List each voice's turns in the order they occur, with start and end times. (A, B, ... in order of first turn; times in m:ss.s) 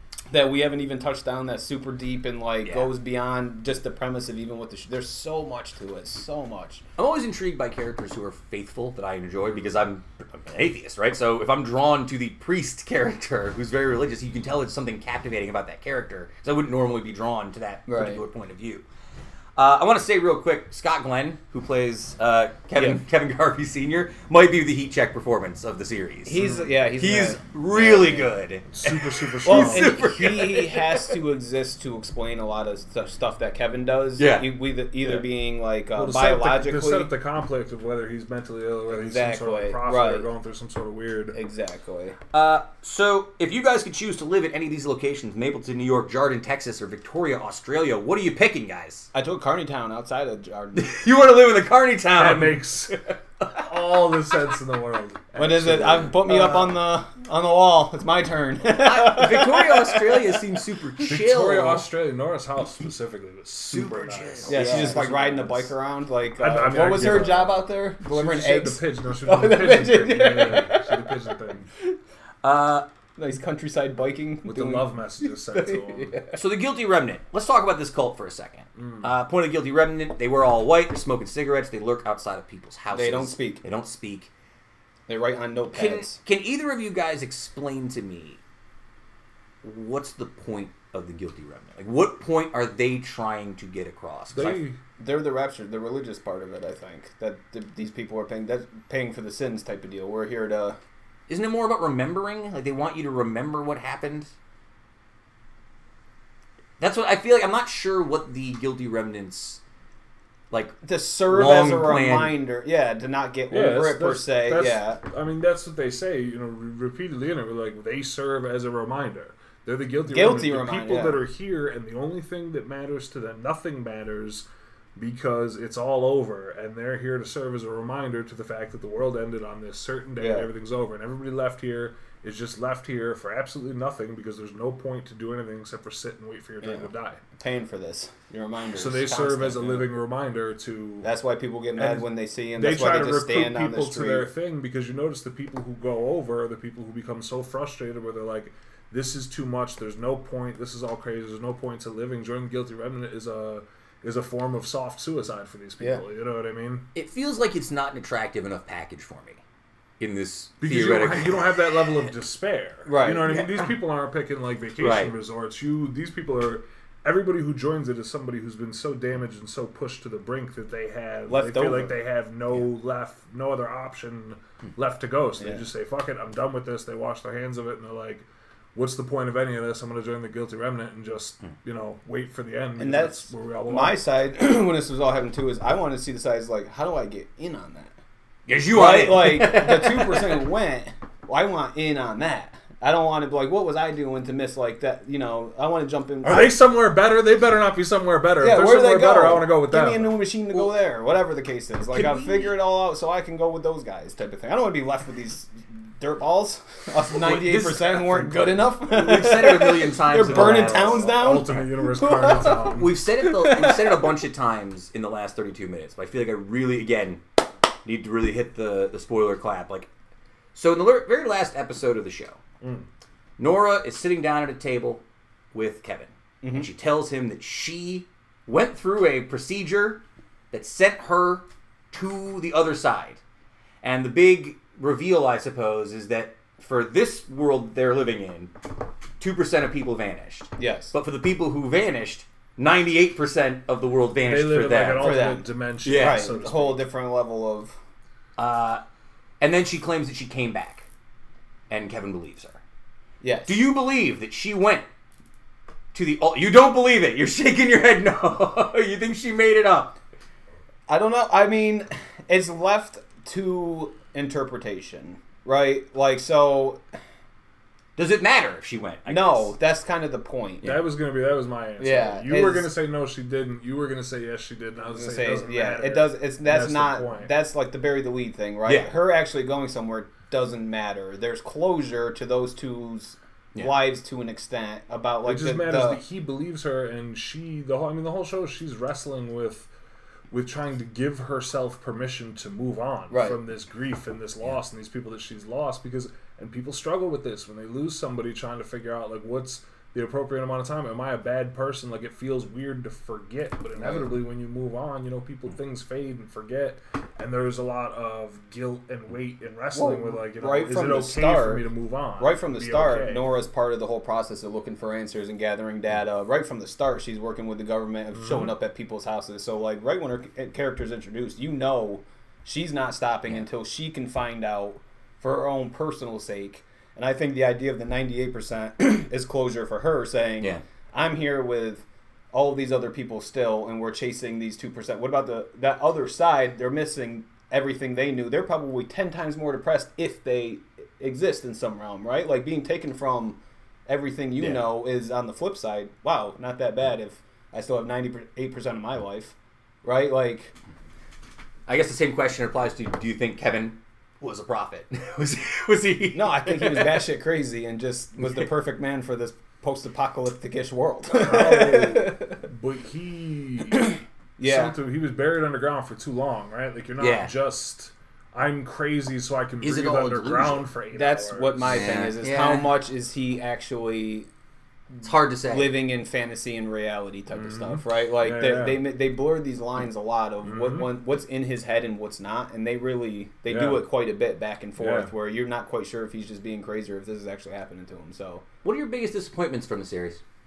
0:00.3-0:06.8 A
0:02.6-0:02.9 B
0:07.0-0:18.8 B
0:17.9-0:18.2 A
0:19.6-0:31.2 B
0:26.3-0:28.3 A
0:28.7-0:30.0 C
0:29.4-0:37.1 A
0:34.2-0:34.5 B
0:35.9-0:41.4 C
0:38.9-0:40.3 A
0:41.3-0:42.2 A
0:42.3-0:49.1 B
0:49.1-0:51.0 A
0:50.7-0:53.6 B
0:52.2-0:53.0 C
0:53.5-0:55.7 C
0:55.4-1:00.6 A
0:55.4-0:56.8 B
0:58.7-1:01.9 B
1:01.0-1:05.7 C
1:03.7-1:05.5 B
1:04.5-1:11.3 A
1:06.4-1:11.7 C
1:12.4-1:12.9 B
1:13.2-1:16.4 A
1:14.4-1:16.2 C
1:16.3-1:24.3 B
1:18.8-1:19.1 C
1:22.9-1:23.6 A
1:25.1-1:26.2 A
1:25.7-1:28.4 B
1:29.6-1:34.6 B
1:34.4-1:34.8 C
1:34.4-1:40.8 A
1:41.3-1:44.3 B
1:46.8-1:49.6 B
1:50.5-1:52.4 B
1:50.8-1:55.0 A
1:53.5-2:04.4 C
2:00.1-2:01.2 A
2:05.0-2:17.2 C
2:10.2-2:10.5 A
2:16.6-2:19.8 A
2:18.7-2:21.1 C
2:21.0-2:24.3 A
2:21.8-2:36.9 C
2:37.0-2:39.4 B
2:40.0-2:41.5 B
2:40.6-3:04.0 C
2:42.9-2:43.3 A
2:43.3-2:43.6 B
2:44.8-2:45.1 B
2:51.3-2:52.0 A
2:55.4-2:55.6 A
3:02.8-3:08.0 A
3:08.5-3:10.5 B
3:08.7-3:16.6 A
3:16.2-3:20.1 C
3:18.4-3:34.2 A
3:21.9-3:22.6 B
3:27.1-3:31.1 B
3:30.2-3:32.9 C
3:32.7-3:37.2 B
3:37.8-3:39.9 B
3:40.6-3:42.4 B
3:42.6-3:42.9 C
3:43.4-3:53.2 B
3:46.4-3:46.7 A
3:53.8-3:58.5 B
3:59.2-4:05.3 B
4:00.6-4:00.9 A
4:04.2-4:06.8 C
4:05.0-4:07.8 A
4:05.8-4:06.3 B
4:08.4-4:08.8 B
4:09.4-4:10.9 B
4:11.7-4:12.6 B
4:13.2-4:13.6 A
4:13.4-4:14.8 B
4:15.9-4:20.0 B
4:20.9-4:26.8 A
4:28.0-4:29.5 B
4:29.1-4:30.8 A
4:30.6-4:37.3 C
4:31.8-4:32.7 A
4:34.8-4:46.0 A
4:38.7-4:38.9 B
4:45.2-4:49.7 C
4:50.3-5:13.3 C
4:53.1-4:53.4 A
5:03.8-5:04.1 A
5:09.7-5:11.6 A
5:12.2-5:50.5 A
5:18.2-5:18.5 C
5:51.7-5:57.0 B
5:56.1-6:02.4 A
5:58.2-5:58.5 B
6:01.1-6:11.8 C
6:03.7-6:04.7 A
6:07.0-6:07.3 B
6:09.6-6:10.7 B
6:10.9-6:14.3 A
6:11.6-6:12.7 B
6:15.0-6:28.4 A
6:15.0-6:15.7 B
6:17.3-6:18.8 C
6:20.4-6:20.9 C
6:23.5-6:23.8 C
6:24.8-6:25.1 C
6:28.6-6:30.2 B